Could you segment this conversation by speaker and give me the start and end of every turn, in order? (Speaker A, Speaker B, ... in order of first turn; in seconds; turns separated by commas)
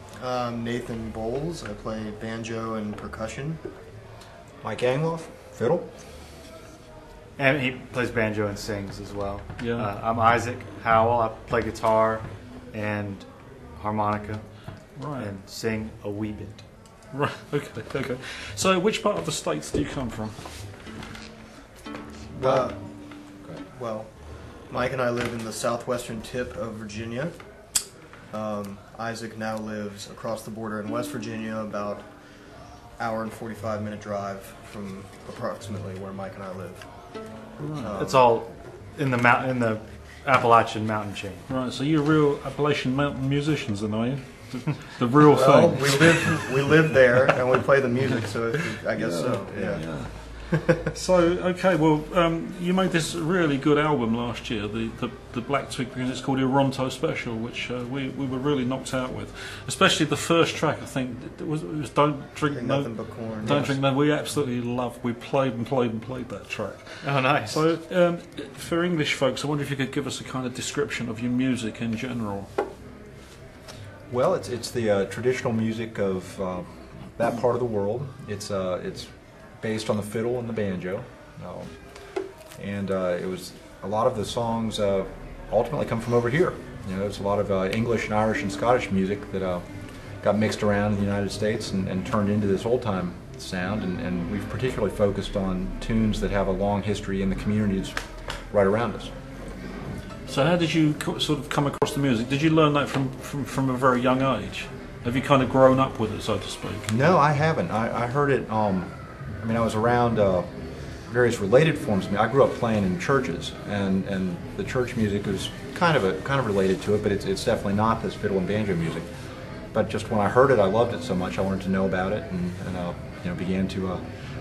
Speaker A: 0.2-3.6, Speaker B: 4.6-5.8, Speaker C: 7.4-14.4, Speaker D: 9.6-9.9, Speaker D: 14.9-15.3, Speaker C: 15.2-16.6, Speaker D: 17.1-20.6, Speaker D: 22.3-22.7, Speaker A: 22.4-24.1, Speaker A: 24.7-27.4, Speaker A: 28.3-32.1, Speaker A: 33.0-36.9, Speaker D: 37.6-37.9, Speaker A: 37.8-38.3, Speaker C: 38.0-41.4, Speaker D: 41.5-46.5, Speaker A: 45.2-50.8, Speaker D: 49.0-72.5, Speaker B: 49.5-49.9, Speaker A: 62.5-63.7, Speaker B: 63.5-63.8, Speaker C: 67.0-67.6, Speaker B: 74.1-99.1, Speaker D: 100.3-106.8, Speaker B: 106.8-119.1, Speaker B: 119.7-124.0